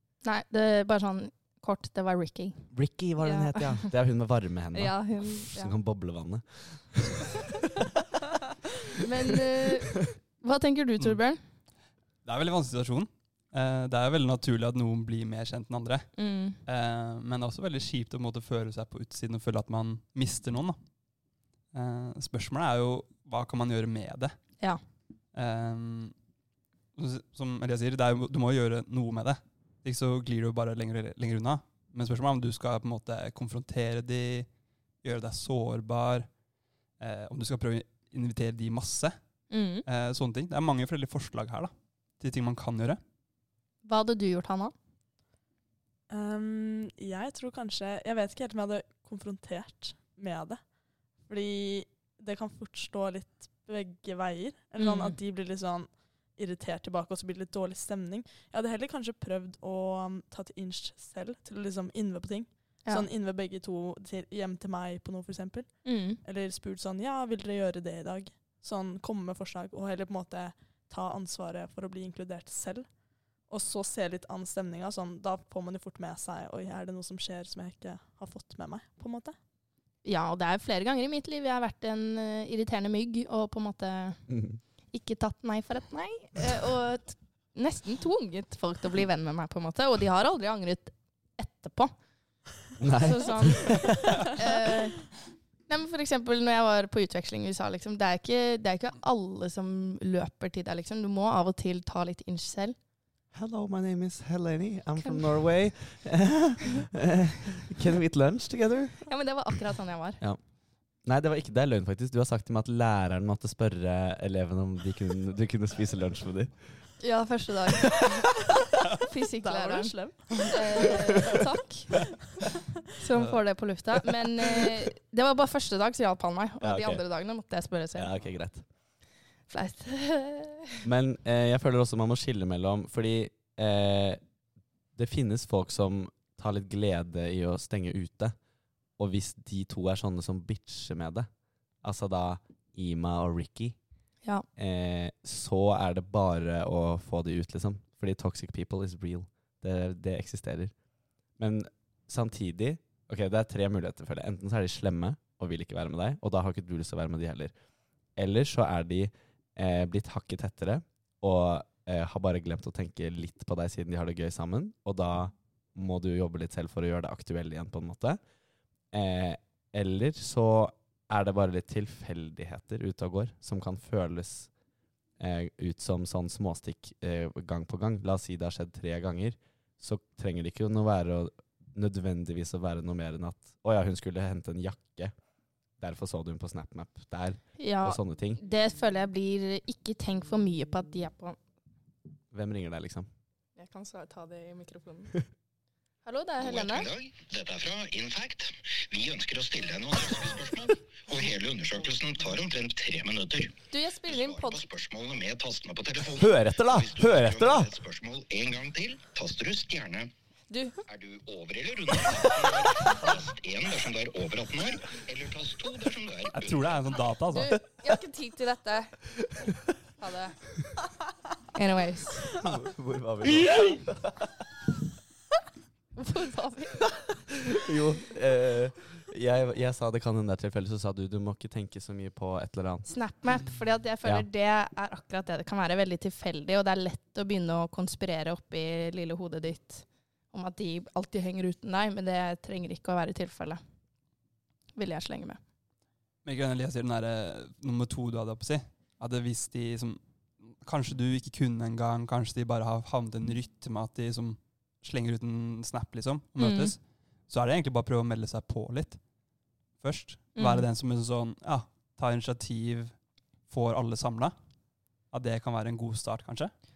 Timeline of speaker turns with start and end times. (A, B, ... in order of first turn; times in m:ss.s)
0:00.2-0:02.7 A
0:02.7-0:07.9 B
0:03.2-0:03.9 A
0:04.7-0:05.7 A
0:09.0-0:11.4 A
0:09.3-0:09.7 B
0:12.2-0:16.1 C
0:16.2-0:16.6 A
0:16.6-0:20.8 C
0:21.7-0:24.4 C
0:25.3-0:26.1 C
0:27.0-0:34.5 C
0:35.0-0:36.3 C
0:37.0-0:39.1 C
0:39.5-0:39.8 A
0:39.8-0:43.0 C
0:43.8-0:44.7 A
0:46.1-0:50.6 D
0:51.3-1:12.9 D
0:54.8-0:55.2 A
1:05.8-1:06.2 A
1:13.5-1:19.4 D
1:20.0-1:24.2 A
1:24.3-1:24.6 B
1:24.9-1:31.9 A
1:32.8-1:34.4 B
1:32.9-1:35.0 A
1:35.7-1:42.8 A
1:43.3-1:49.1 B
1:49.1-1:50.2 A
1:51.0-1:56.5 B
1:57.0-1:58.4 A
1:58.9-2:01.9 A
1:59.4-2:01.2 D
2:03.0-2:08.1 A
2:06.6-2:07.0 B
2:07.9-2:08.6 B
2:09.5-2:10.8 A
2:10.8-2:14.2 B
2:15.0-2:18.3 B
2:19.0-2:21.3 B
2:21.8-2:23.8 B
2:24.6-2:30.7 B
2:31.4-2:37.5 B
2:38.2-2:48.2 B
2:48.9-2:54.5 B
2:55.2-3:05.1 B
3:05.8-3:08.4 B
3:07.6-3:11.4 A
3:12.3-3:13.1 B
3:13.6-3:15.1 A
3:16.0-3:16.9 A
3:16.4-3:30.1 E
3:23.7-3:24.6 A
3:26.1-3:27.7 B
3:30.5-3:30.8 A
3:30.9-3:36.6 E
3:36.3-3:37.6 C
3:37.3-3:38.9 A
3:40.0-3:40.4 A
3:41.5-3:42.3 A
3:42.4-3:44.3 B
3:46.0-3:46.9 A
3:47.3-3:52.9 B
3:52.9-4:03.6 A
4:04.8-4:05.4 A
4:06.2-4:19.0 C
4:16.4-4:16.7 A
4:19.8-4:22.9 C
4:20.4-4:20.7 A
4:23.5-4:24.3 C
4:25.1-4:26.5 C